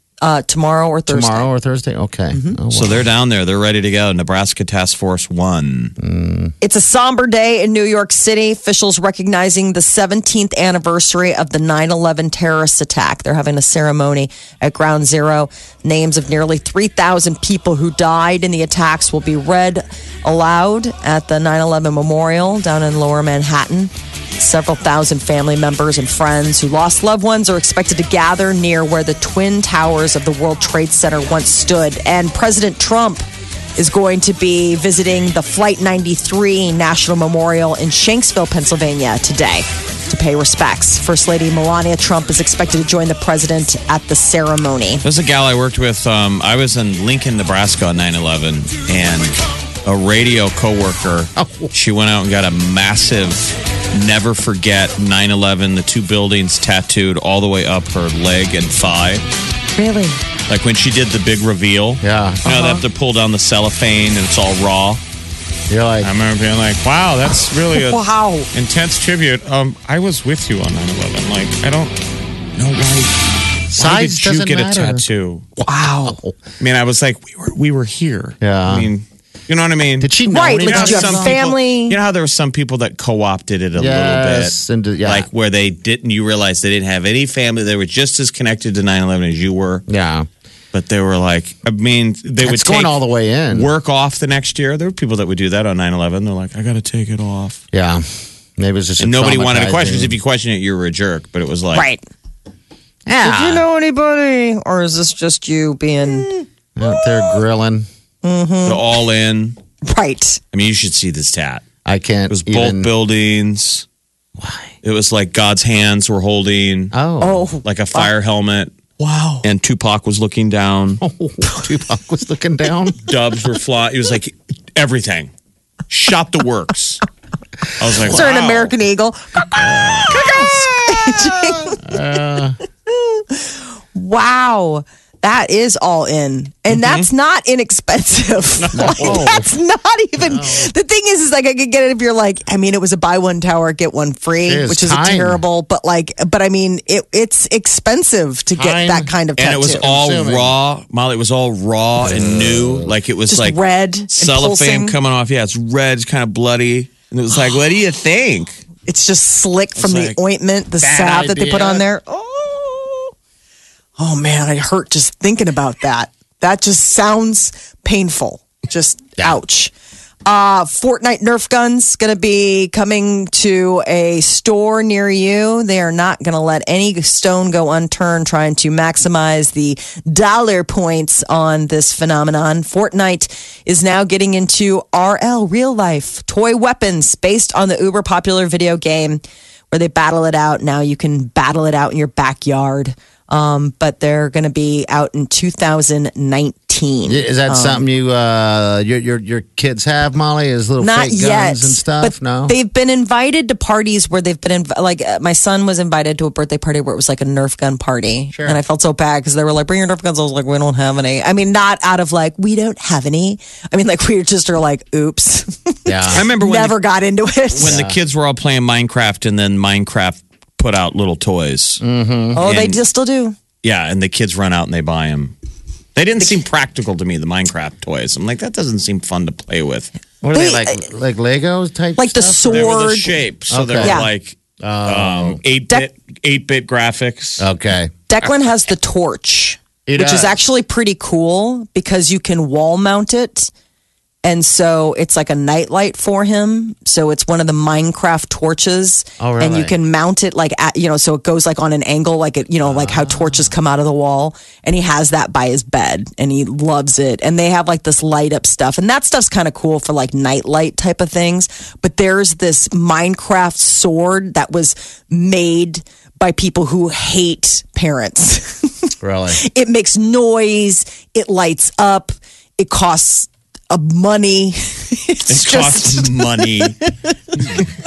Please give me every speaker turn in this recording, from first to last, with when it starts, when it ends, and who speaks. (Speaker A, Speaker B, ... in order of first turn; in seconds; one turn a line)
Speaker A: 0.2-1.5
Speaker B: 1.1-3.1
Speaker C: 2.7-5.9
Speaker B: 6.0-6.5
Speaker A: 6.6-45.0
Speaker C: 45.0-59.2
Speaker B: 51.4-51.7
Speaker A: 59.8-60.2
Speaker C: 60.5-65.0
Speaker B: 62.0-62.4
Speaker A: 62.4-62.8
Speaker B: 65.7-66.1
Speaker C: 66.0-68.0
Speaker A: 67.7-68.5
Speaker C: 68.5-72.0
Speaker C: 72.5-73.1
Speaker B: 73.7-75.0
Speaker C: 73.7-75.5
Speaker A: 75.7-76.2
Speaker B: 76.0-76.3
Speaker C: 76.6-89.8
Speaker B: 78.4-78.9
Speaker B: 80.0-81.4
Speaker A: 80.3-82.0
Speaker B: 83.7-85.3
Speaker B: 89.9-90.3
Speaker C: 90.7-93.0
Speaker B: 92.4-93.7
Speaker C: 93.5-97.6
Speaker B: 97.7-100.1
Speaker C: 99.0-101.8
Speaker A: 101.7-102.0
Speaker B: 103.1-103.6
Speaker A: 103.2-106.4
Speaker B: 106.8-107.9
Speaker A: 108.2-108.8
Speaker C: 108.6-109.6
Speaker A: 109.8-110.4
Speaker C: 110.5-111.6
Speaker B: 111.8-112.9
Speaker C: 112.3-113.8
Speaker B: 114.4-114.7
Speaker C: 114.8-116.9
Speaker B: 116.9-117.4
Speaker A: 117.2-118.1
Speaker C: 117.6-118.8
Speaker C: 119.4-121.0
Speaker B: 121.0-123.0
Speaker C: 123.0-125.3
Speaker C: 125.9-127.0
Speaker C: 127.8-128.7
Speaker B: 127.9-128.2
Speaker A: 128.1-131.9
Speaker B: 130.1-132.6
Speaker A: 132.9-149.8
Speaker C: 136.7-137.0
Speaker B: 138.6-139.5
Speaker B: 140.3-140.7
Speaker B: 144.4-145.4
Speaker B: 148.5-150.5
Speaker C: 149.4-158.6
Speaker B: 152.0-152.9
Speaker A: 153.3-154.9
Speaker A: 158.8-163.1
Speaker C: 159.8-160.2
Speaker B: 160.8-161.8
Speaker A: 164.0-169.7
Speaker A: 170.2-197.8
Speaker B: 197.1-202.5
Speaker A: 200.8-217.8
Speaker B: 208.3-208.6
Speaker B: 215.8-216.2
Speaker C: 216.1-216.8
Speaker C: 217.5-221.8
Speaker B: 217.6-218.0
Speaker B: 221.8-222.4
Speaker A: 222.3-223.3
Speaker C: 222.4-222.8
Speaker C: 223.6-225.3
Speaker C: 225.9-229.9
Speaker B: 230.2-232.9
Speaker A: 230.3-230.8
Speaker A: 232.0-233.1
Speaker C: 232.5-237.4
Speaker B: 233.5-234.0
Speaker A: 233.8-234.1
Speaker B: 234.6-235.4
Speaker B: 237.4-238.3
Speaker A: 238.1-243.5
Speaker B: 239.8-240.4
Speaker A: 244.2-276.7
Speaker B: 249.2-249.7
Speaker B: 252.6-253.5
Speaker B: 269.0-269.4
Speaker C: 275.3-276.8
Speaker A: 277.3-277.6